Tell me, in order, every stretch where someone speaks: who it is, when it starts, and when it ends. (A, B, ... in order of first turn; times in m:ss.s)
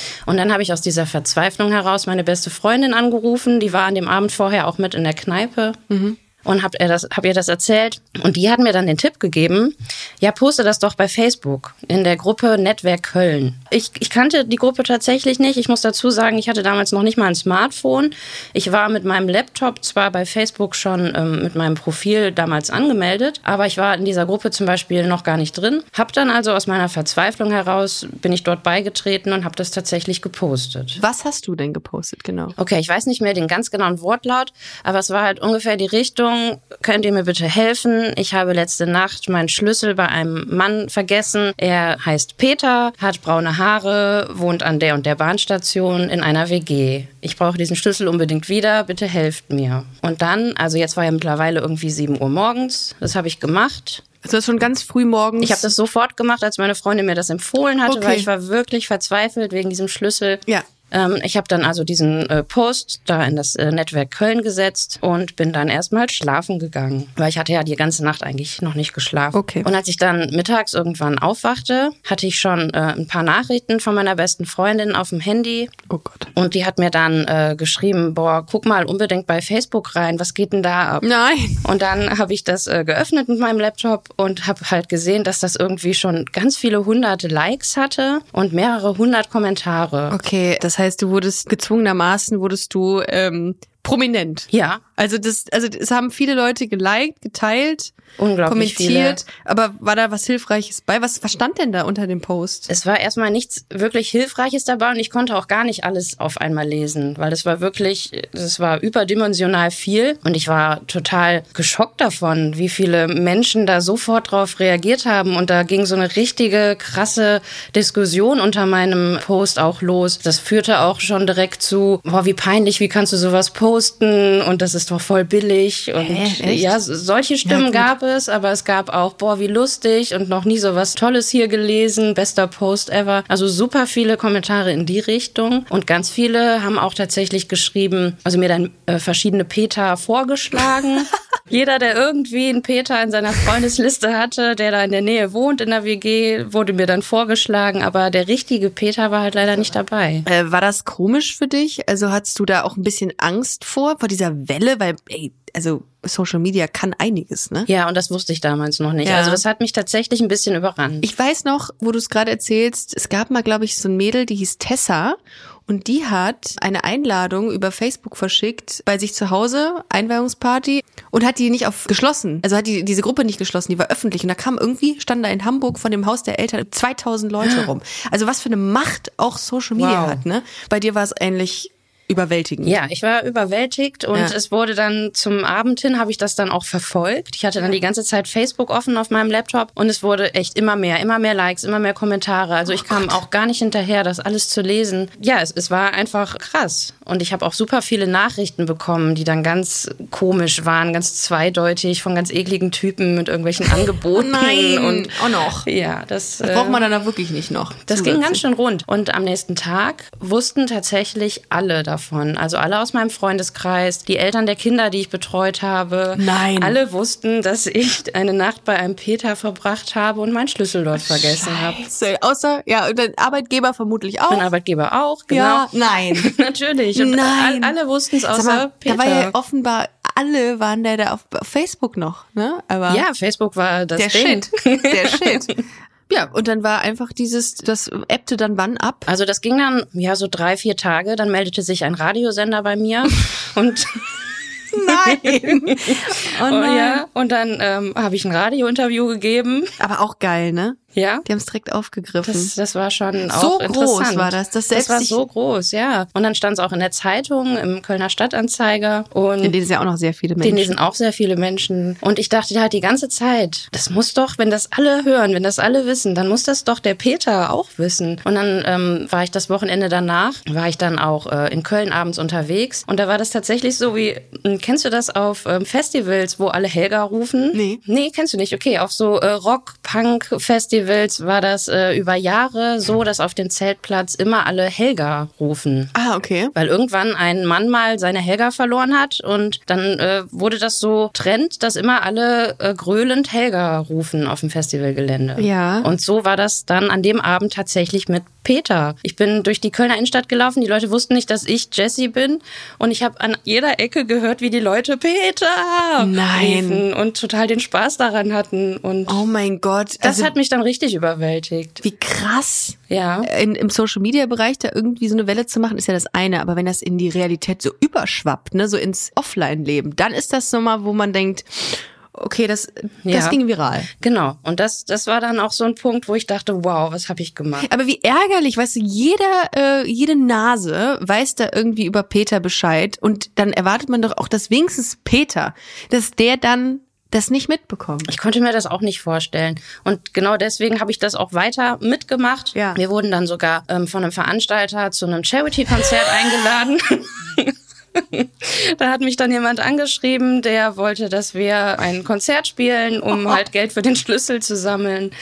0:00.2-0:05.8 A
0:05.9-0:06.2 B
0:06.4-0:31.0 A
0:31.0-0:32.5 B
0:32.6-0:54.0 A
0:54.2-0:55.7 B
0:55.4-1:15.7 A
0:57.8-0:58.3 B
1:09.3-1:09.7 B
1:15.9-1:16.3 B
1:16.3-1:21.1 A
1:21.0-1:21.6 B
1:21.6-1:30.2 A
1:30.1-1:37.9 B
1:34.5-1:34.8 A
1:38.2-1:39.2 A
1:38.5-1:42.7 B
1:42.7-2:30.2 A
2:06.0-2:06.8 B
2:07.4-2:07.9 B
2:30.2-2:37.7 B
2:37.7-2:41.1 A
2:39.0-2:39.4 B
2:41.0-3:02.8 B
2:57.4-2:57.7 A
2:59.8-3:00.2 A
3:02.6-3:25.1 A
3:12.7-3:13.2 B
3:24.1-3:25.7 B
3:25.6-3:26.8 A
3:26.4-3:28.4 B
3:27.9-3:41.8 A
3:36.1-3:36.8 B
3:41.0-3:44.5 B
3:44.3-3:49.3 A
3:45.3-3:46.3 B
3:46.9-3:47.8 B
3:48.3-3:53.0 B
3:52.9-3:55.5 A
3:54.0-3:55.5 B
3:56.1-3:59.1 B
3:59.1-4:04.0 A
4:04.7-4:07.0 B
4:04.8-4:09.7 A
4:09.8-4:12.5 B
4:10.9-4:11.2 A
4:12.2-4:19.5 A
4:13.3-4:15.2 B
4:19.4-4:20.8 B
4:20.4-4:45.9 A
4:37.5-4:37.8 B
4:45.9-4:46.5 B
4:46.5-5:09.2 A
4:55.4-4:55.9 B
5:06.0-5:06.8 B
5:09.1-5:10.3 B
5:10.0-5:11.8 A
5:11.8-5:23.9 B
5:12.9-5:13.3 A
5:23.0-5:23.4 A
5:24.0-5:27.7 A
5:27.6-5:38.1 B
5:38.1-5:55.1 A
5:42.5-5:42.8 B
5:53.1-5:53.4 B